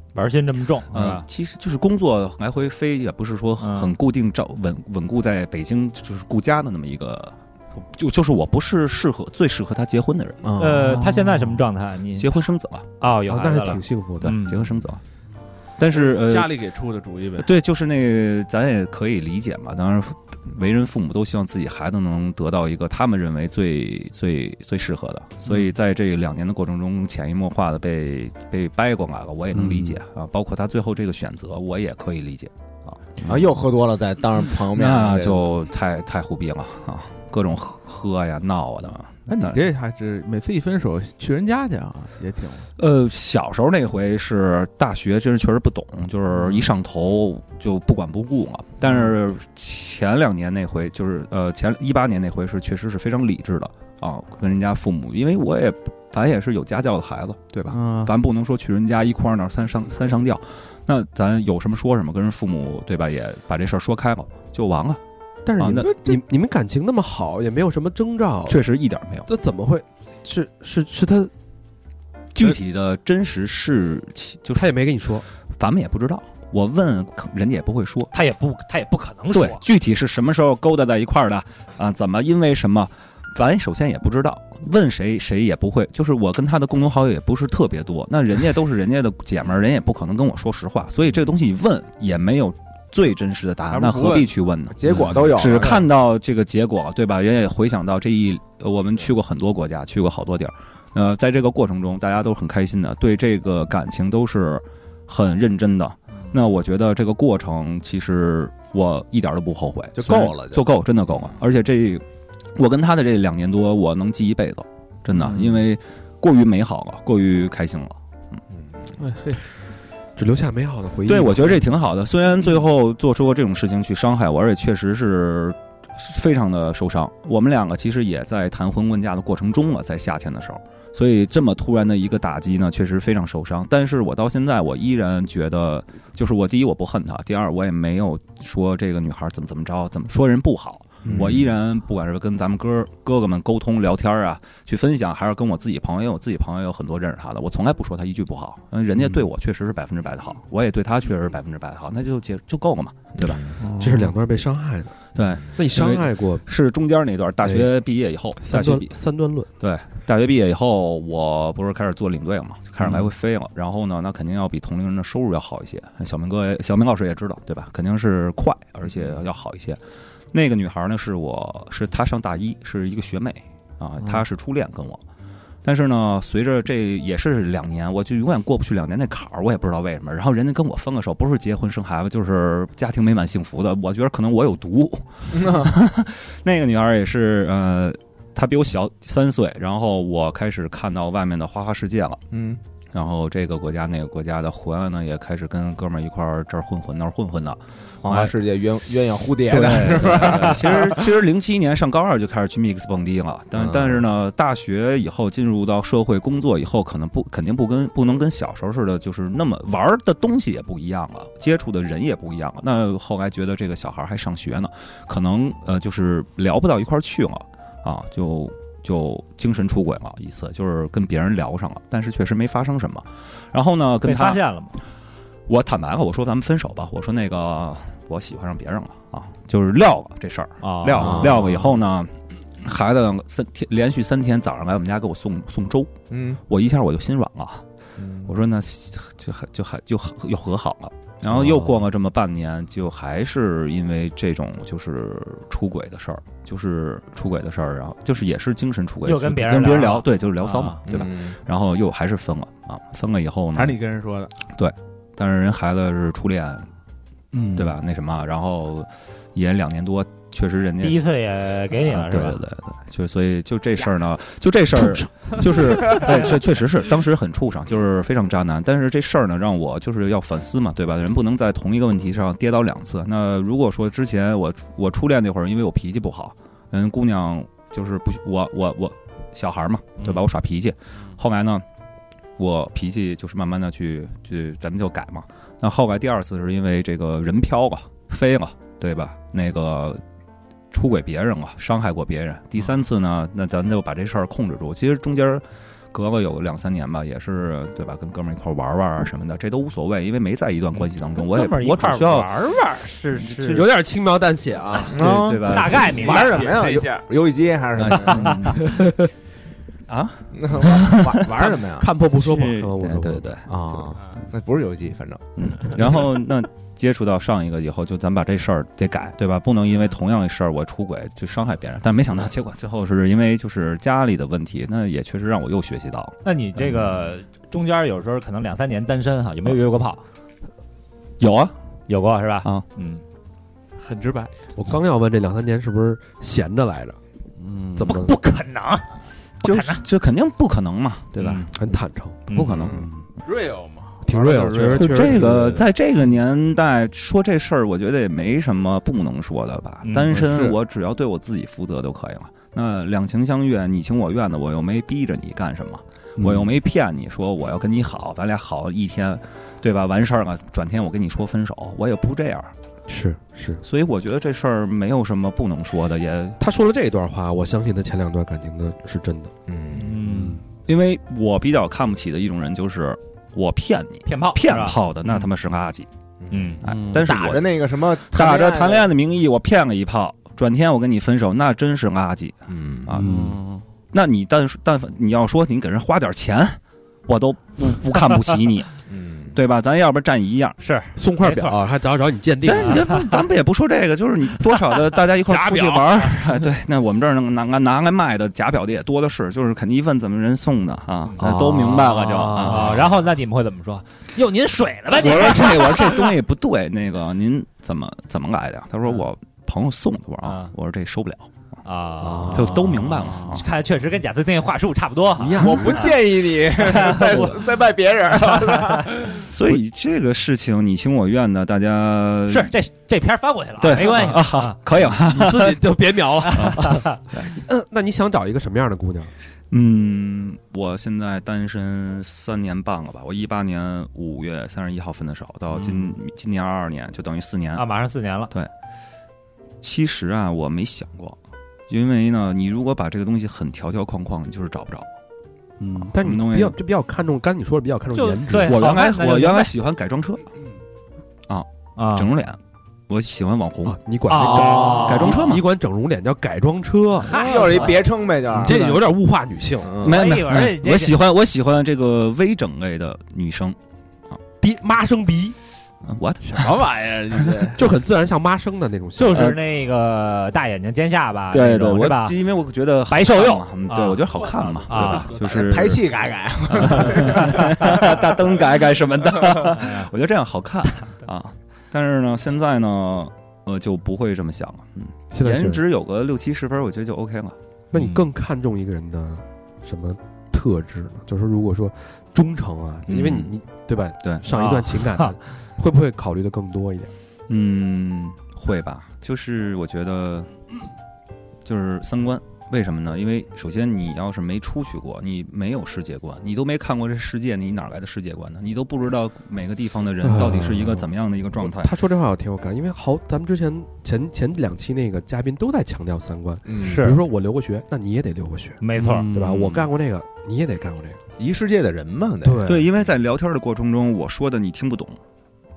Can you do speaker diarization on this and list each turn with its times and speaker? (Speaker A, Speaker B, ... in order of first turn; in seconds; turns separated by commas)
Speaker A: 0.1-1.2, Speaker B: 0.9-10.5, Speaker A: 3.6-3.9, Speaker C: 10.4-11.0, Speaker A: 10.6-12.3, Speaker B: 12.2-12.9, Speaker A: 13.0-14.7, Speaker D: 13.2-14.3, Speaker B: 14.2-15.0, Speaker B: 15.8-16.6, Speaker E: 15.9-17.5, Speaker B: 17.4-33.0, Speaker C: 33.2-35.6, Speaker B: 34.7-39.7, Speaker E: 39.3-42.7, Speaker B: 42.8-65.0, Speaker E: 46.4-46.7, Speaker E: 48.8-49.1, Speaker E: 57.7-58.1, Speaker D: 65.5-68.6, Speaker B: 65.6-66.0, Speaker B: 68.5-69.3, Speaker D: 69.3-71.3, Speaker B: 72.3-74.7, Speaker D: 74.5-75.2, Speaker B: 75.5-78.1, Speaker A: 78.1-79.6, Speaker B: 79.3-112.0, Speaker E: 93.7-94.3, Speaker C: 94.7-95.8, Speaker C: 110.0-110.7, Speaker B: 112.5-118.0, Speaker E: 119.0-119.4, Speaker D: 120.2-121.7, Speaker B: 121.1-153.4, Speaker C: 141.0-141.5, Speaker C: 153.2-153.5, Speaker E: 153.6-154.1, Speaker D: 153.8-155.0, Speaker B: 155.1-158.9, Speaker D: 155.5-156.4, Speaker D: 157.4-157.7, Speaker D: 158.4-159.5, Speaker B: 159.6-169.8, Speaker B: 170.3-175.0, Speaker B: 175.6-192.2, Speaker C: 185.3-185.7, Speaker C: 192.3-192.6, Speaker B: 192.9-198.3, Speaker C: 198.0-201.1, Speaker B: 199.5-224.4, Speaker C: 203.6-204.0, Speaker A: 224.0-224.8, Speaker B: 225.5-235.9, Speaker A: 230.6-231.4, Speaker C: 231.0-231.4, Speaker C: 236.1-236.4, Speaker B: 236.5-237.6, Speaker C: 238.0-238.3, Speaker B: 238.2-253.8, Speaker A: 249.0-250.8, Speaker C: 250.8-251.3, Speaker E: 253.5-254.3, Speaker B: 254.5-256.7, Speaker B: 257.5-261.1, Speaker A: 260.8-262.4, Speaker B: 261.8-281.6, Speaker B: 282.4-290.0, Speaker B: 290.7-302.3, Speaker A: 301.1-303.7, Speaker D: 303.5-305.0, Speaker C: 304.9-308.5, Speaker B: 304.9-306.1, Speaker A: 305.4-306.5, Speaker E: 305.8-307.0, Speaker B: 307.8-308.6, Speaker D: 308.6-309.1, Speaker B: 309.9-311.5, Speaker C: 310.3-311.9, Speaker D: 311.8-313.9, Speaker B: 312.1-313.4, Speaker C: 313.5-315.9, Speaker B: 315.4-326.7, Speaker A: 326.2-330.0, Speaker B: 331.2-331.5, Speaker A: 331.9-333.0, Speaker E: 333.8-334.3, Speaker D: 334.5-337.0, Speaker E: 337.4-337.8, Speaker D: 337.8-338.2, Speaker A: 337.8-338.9, Speaker A: 339.4-339.8, Speaker B: 339.4-341.5, Speaker A: 341.2-341.5, Speaker D: 341.5-342.2, Speaker A: 342.3-342.7, Speaker B: 342.3-342.9, Speaker E: 343.2-345.6, Speaker D: 344.0-345.6, Speaker B: 344.7-362.5, Speaker A: 349.8-350.1, Speaker E: 350.1-350.5, Speaker D: 362.9-363.6, Speaker B: 363.6-366.4, Speaker D: 366.4-369.3, Speaker C: 369.5-370.0, Speaker A: 369.8-370.4, Speaker D: 370.1-370.4, Speaker B: 370.7-375.9, Speaker A: 374.1-374.8, Speaker C: 376.2-378.9, Speaker A: 376.3-376.6, Speaker B: 376.6-383.3, Speaker E: 376.6-377.1, Speaker C: 382.5-383.0, Speaker E: 383.0-383.6, Speaker D: 383.0-383.3, Speaker B: 383.9-388.7, Speaker C: 388.9-389.4, Speaker B: 389.3-390.6, Speaker A: 390.6-391.6, Speaker D: 390.9-393.0, Speaker B: 392.4-402.8, Speaker A: 392.5-393.1, Speaker A: 395.2-396.3, Speaker D: 401.2-402.8, Speaker A: 402.3-406.1, Speaker B: 404.9-411.3, Speaker A: 410.2-410.5, Speaker A: 411.6-412.5, Speaker D: 412.0-413.0, Speaker B: 412.3-413.4, Speaker A: 413.2-415.9, Speaker D: 415.2-415.9, Speaker C: 415.4-419.2, Speaker A: 416.7-417.3, Speaker B: 419.2-422.5, Speaker A: 422.3-424.6, Speaker B: 423.6-425.6, Speaker D: 424.9-429.1, Speaker A: 426.2-427.0, Speaker B: 426.3-426.6, Speaker B: 429.5-437.6, Speaker A: 437.6-438.3, Speaker B: 439.6-441.2, Speaker B: 441.7-444.9, Speaker D: 445.6-448.6, Speaker B: 445.7-446.6, Speaker A: 447.9-449.5, Speaker B: 448.4-450.3, Speaker B: 451.3-452.4, Speaker A: 451.8-452.1, Speaker B: 452.9-453.8, Speaker D: 453.6-457.1, Speaker A: 454.1-455.3, Speaker B: 454.5-455.4, Speaker A: 457.1-457.8, Speaker C: 457.1-458.8, Speaker D: 458.3-459.7, Speaker C: 459.6-460.0, Speaker B: 459.8-463.6, Speaker A: 459.8-461.0, Speaker D: 464.4-465.4, Speaker B: 465.8-467.3, Speaker E: 466.2-467.7, Speaker D: 467.6-469.4, Speaker A: 469.0-472.2, Speaker B: 469.1-469.4, Speaker B: 471.3-475.8, Speaker A: 472.9-474.1, Speaker E: 474.1-475.4, Speaker A: 474.6-475.1, Speaker C: 475.1-478.0, Speaker B: 476.5-487.4, Speaker A: 479.5-479.9, Speaker D: 485.1-485.6, Speaker D: 487.7-496.9, Speaker A: 487.7-488.0, Speaker C: 492.9-493.2, Speaker B: 492.9-493.3, Speaker A: 494.3-495.1, Speaker B: 497.3-500.3, Speaker B: 501.4-511.7, Speaker D: 510.0-510.9, Speaker D: 511.4-518.6, Speaker C: 516.5-516.9, Speaker A: 516.6-517.0, Speaker A: 518.6-519.1, Speaker E: 518.8-519.1, Speaker D: 519.1-521.0, Speaker C: 521.2-522.6, Speaker D: 522.2-522.6, Speaker B: 522.5-525.0